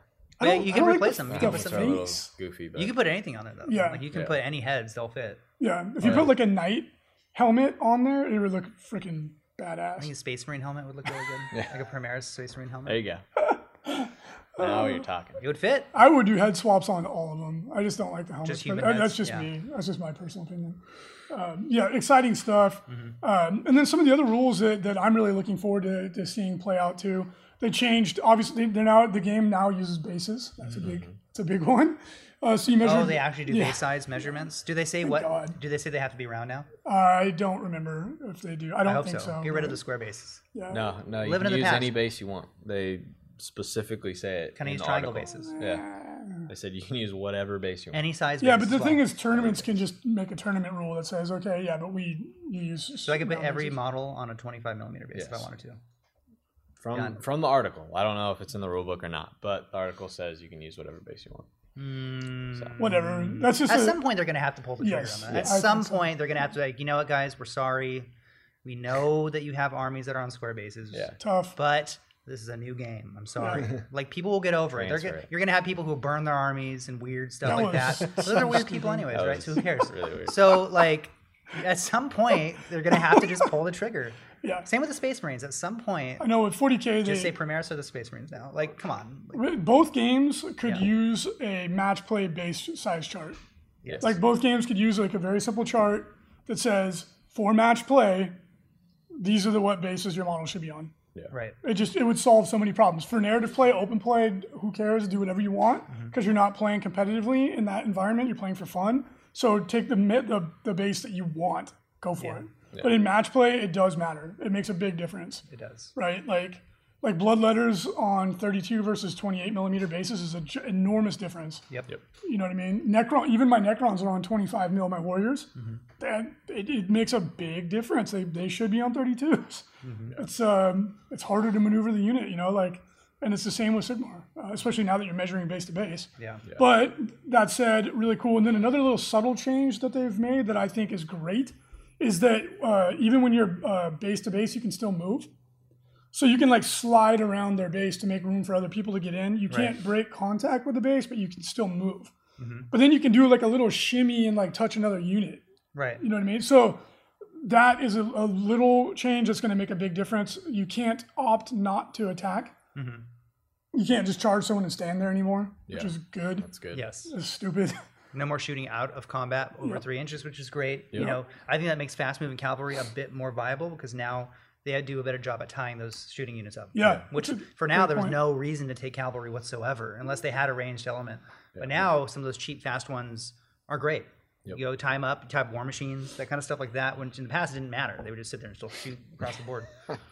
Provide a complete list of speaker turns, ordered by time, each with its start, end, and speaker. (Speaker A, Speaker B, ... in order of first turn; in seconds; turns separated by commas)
Speaker A: 0.4-2.1, Speaker B: 0.4-2.3, Speaker C: 1.3-3.0, Speaker A: 2.8-5.4, Speaker B: 3.7-4.0, Speaker B: 5.6-10.1, Speaker C: 6.0-6.3, Speaker A: 10.0-13.0, Speaker C: 12.9-13.2, Speaker B: 13.4-15.0, Speaker C: 14.6-15.4, Speaker A: 15.4-15.9, Speaker B: 15.9-20.8, Speaker A: 18.4-19.5, Speaker B: 21.3-33.9, Speaker C: 30.8-31.1, Speaker A: 32.8-36.7, Speaker B: 35.0-35.6, Speaker B: 36.9-39.8, Speaker A: 38.9-40.4, Speaker B: 40.5-40.8, Speaker C: 40.7-45.9, Speaker A: 41.2-42.0, Speaker A: 44.6-45.6, Speaker B: 45.5-46.5, Speaker C: 46.5-48.0, Speaker A: 47.9-49.5, Speaker B: 48.4-53.8, Speaker A: 53.0-55.8, Speaker C: 55.1-55.5, Speaker C: 56.8-61.5, Speaker A: 56.9-57.2, Speaker A: 61.8-68.1, Speaker B: 62.8-64.0, Speaker B: 64.8-66.1, Speaker C: 65.3-65.6, Speaker A: 68.6-86.3, Speaker B: 71.2-71.6, Speaker B: 73.4-73.7, Speaker C: 74.8-75.3, Speaker B: 77.5-79.1, Speaker C: 78.0-78.5, Speaker C: 79.1-80.6, Speaker B: 86.2-87.3, Speaker A: 87.0-89.4, Speaker B: 89.3-93.4, Speaker A: 93.8-94.1, Speaker B: 94.0-98.3, Speaker B: 99.2-100.9, Speaker A: 101.3-101.6, Speaker B: 101.6-115.5, Speaker A: 115.5-115.9, Speaker B: 116.0-121.6, Speaker B: 122.2-145.3, Speaker A: 125.6-125.8, Speaker A: 129.8-130.2, Speaker A: 136.2-136.4, Speaker B: 146.1-152.1, Speaker A: 149.5-149.8, Speaker A: 152.4-152.7, Speaker B: 152.7-155.4, Speaker A: 155.8-156.0, Speaker B: 156.0-156.8, Speaker B: 157.4-162.5, Speaker A: 162.8-163.1, Speaker B: 163.7-166.5, Speaker C: 165.7-166.9, Speaker A: 166.7-167.1, Speaker B: 167.1-167.8, Speaker A: 168.1-189.7, Speaker B: 176.8-178.2, Speaker C: 181.6-181.9